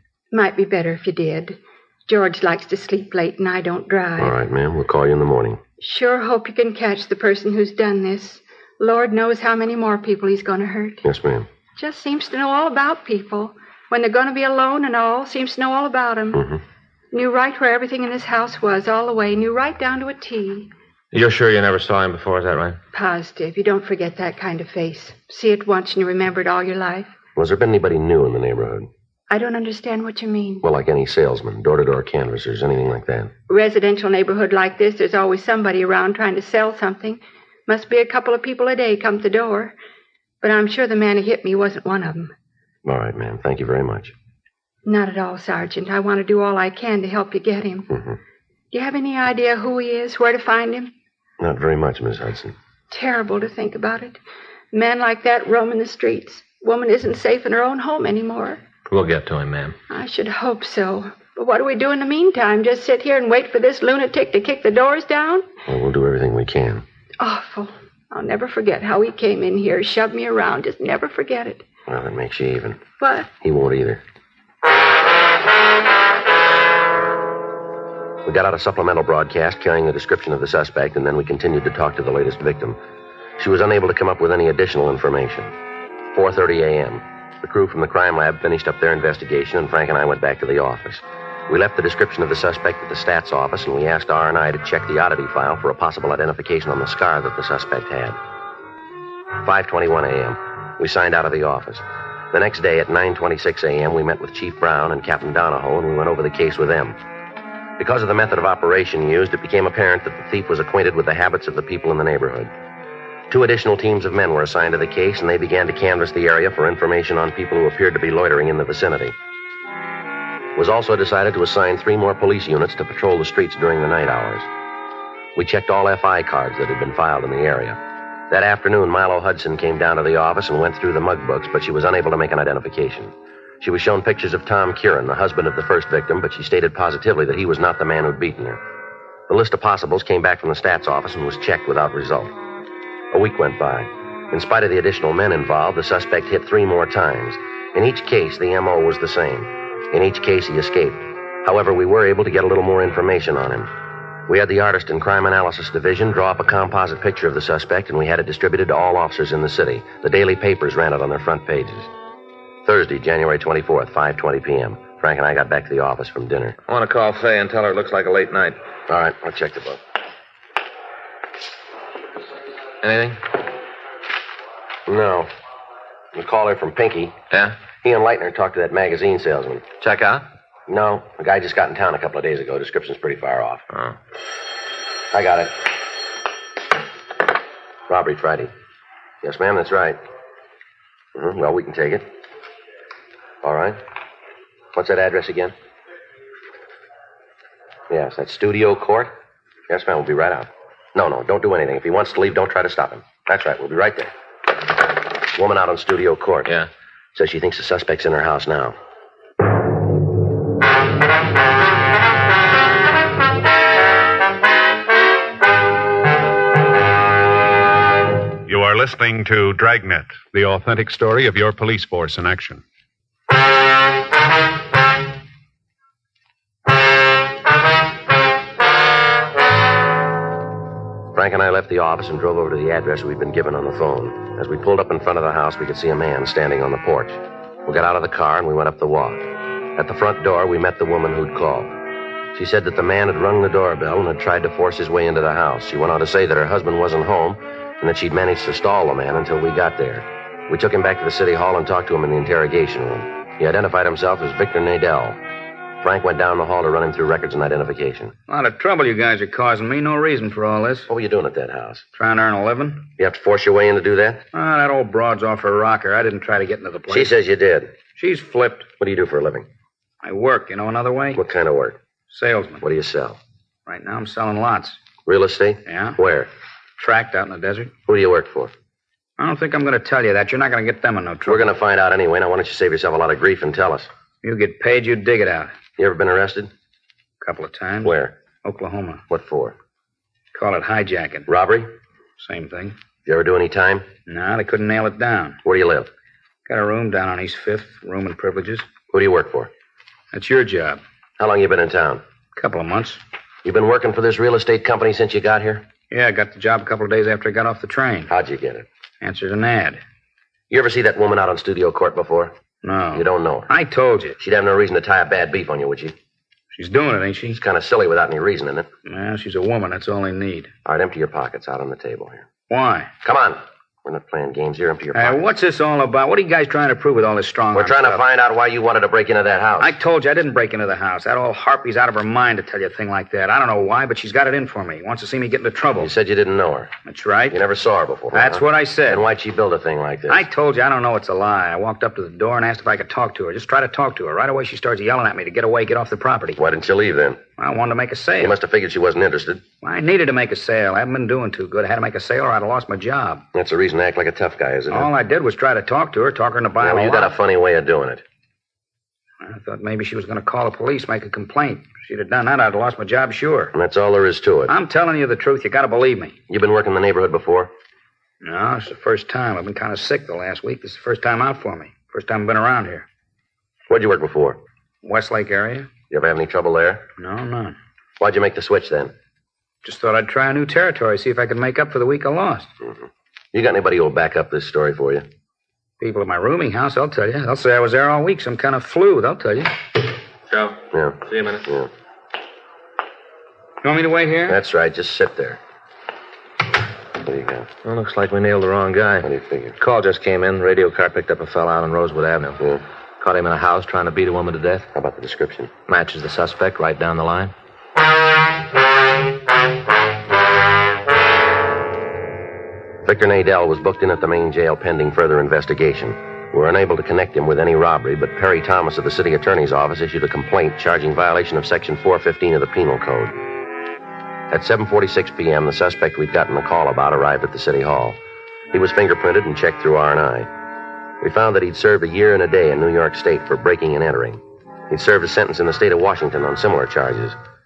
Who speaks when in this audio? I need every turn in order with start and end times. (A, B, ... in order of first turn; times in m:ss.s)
0:00.3-0:04.3 A
0:04.2-0:05.6 B
0:05.8-0:11.0 A
0:11.0-0:11.5 B
0:11.8-0:16.4 A
0:16.3-0:16.6 B
0:17.1-0:20.7 A
0:21.1-0:22.8 C
0:22.9-0:27.1 A
0:27.4-0:28.9 B
0:29.3-0:30.6 A
0:30.6-0:33.3 B
0:33.5-0:39.7 A
0:40.4-0:42.3 A
0:42.8-0:44.1 B
0:44.8-0:47.9 A
0:47.9-0:48.2 B
0:48.7-0:50.9 A
0:51.4-0:52.5 B
0:52.9-0:54.2 A
0:54.7-0:58.6 A
0:58.9-0:59.8 C
0:59.9-1:05.5 A
1:05.7-1:06.8 B
1:07.2-1:11.6 A
1:11.9-1:12.9 B
1:13.0-1:13.3 A
1:13.4-1:14.0 B
1:18.2-1:22.8 B
1:23.4-1:25.5 B
1:26.1-1:38.2 B
1:39.4-1:47.0 B
1:47.8-1:52.5 B
1:53.3-1:59.1 B
2:00.6-2:04.5 B
2:05.4-2:07.8 B
2:08.3-2:18.6 B
2:19.3-2:22.3 B
2:23.1-2:33.7 B
2:34.3-2:41.9 B
2:42.6-2:46.6 B
2:46.7-2:48.6 C
2:48.9-2:49.8 B
2:52.8-2:53.2 C
2:54.9-2:55.3 B
2:56.1-2:57.2 B
2:57.3-2:57.6 C
2:57.7-2:59.6 B
2:59.8-3:00.2 C
3:00.7-3:03.6 B
3:05.1-3:05.7 B
3:07.9-3:08.5 B
3:09.2-3:10.0 B
3:11.1-3:12.1 B
3:13.4-3:13.8 B
3:14.7-3:15.5 B
3:17.9-3:19.1 B
3:19.7-3:24.1 B
3:25.3-3:26.6 B
3:27.1-3:28.7 B
3:38.4-3:42.6 D
3:51.1-4:01.7 B
4:02.3-4:15.2 B
4:15.8-4:18.1 B
4:18.3-4:20.9 E
4:20.9-4:21.8 B
4:21.9-4:22.9 E
4:23.0-4:24.2 B
4:24.3-4:27.1 E
4:26.9-4:27.7 B
4:28.0-4:28.7 E
4:28.8-4:29.4 B
4:30.0-4:31.2 E
4:31.1-4:31.8 B
4:32.1-4:32.6 E
4:32.6-4:33.2 B
4:33.7-4:34.8 E
4:35.0-4:36.3 B
4:35.6-4:36.0 E
4:36.8-4:37.7 E
4:37.9-4:38.5 B
4:39.2-4:41.5 E
4:41.3-4:43.9 B
4:44.2-4:45.6 E
4:45.7-4:46.5 B
4:47.2-4:49.0 E
4:47.8-4:48.1 B
4:49.1-4:49.5 B
4:50.3-4:51.3 E
4:51.3-4:51.7 B
4:52.2-4:52.7 E
4:53.0-4:53.9 B
4:54.1-4:55.4 E
4:55.4-4:55.9 B
4:56.5-4:58.6 E
4:58.9-4:59.5 B
5:00.1-5:00.8 E
5:01.2-5:02.0 B
5:02.4-5:03.0 E
5:03.4-5:05.6 B
5:05.9-5:08.1 E
5:08.1-5:08.6 B
5:09.0-5:09.8 E
5:10.5-5:12.3 B
5:12.6-5:14.2 E
5:12.9-5:13.5 B
5:14.2-5:15.9 B
5:16.5-5:17.4 E
5:17.3-5:18.7 B
5:18.8-5:20.5 E
5:20.6-5:22.2 B
5:22.5-5:22.9 E
5:23.0-5:25.2 B
5:24.9-5:28.0 E
5:27.5-5:29.7 B
5:29.6-5:35.9 E
5:35.8-5:36.7 B
5:36.8-5:37.4 E
5:37.3-5:40.3 B
5:38.1-5:39.1 E
5:40.1-5:46.4 E
5:46.4-5:47.2 B
5:47.4-5:48.4 E
5:48.2-5:49.4 B
5:49.6-5:53.2 E
5:53.3-5:54.9 B
5:54.7-5:57.2 E
5:56.6-5:58.0 B
5:59.2-6:03.5 E
6:03.5-6:04.5 B
6:04.5-6:06.2 E
6:06.3-6:07.5 B
6:08.2-6:12.8 E
6:13.7-6:14.4 B
6:14.8-6:15.7 E
6:15.9-6:16.8 B
6:17.0-6:17.6 E
6:18.0-6:18.9 B
6:19.6-6:22.5 E
6:23.3-6:25.0 B
6:25.8-6:29.5 E
6:30.3-6:31.4 C
6:30.7-6:31.7 B
6:33.6-6:34.4 E
6:34.3-6:35.4 B
6:37.0-6:37.5 B
6:37.6-6:39.1 C
6:39.0-6:39.6 B
6:39.6-6:42.4 C
6:43.0-6:44.7 C
6:44.7-6:45.5 B
6:45.7-6:47.3 C
6:52.8-7:03.1 B
7:04.3-7:08.0 B
7:08.5-7:10.3 B
7:11.0-7:17.2 B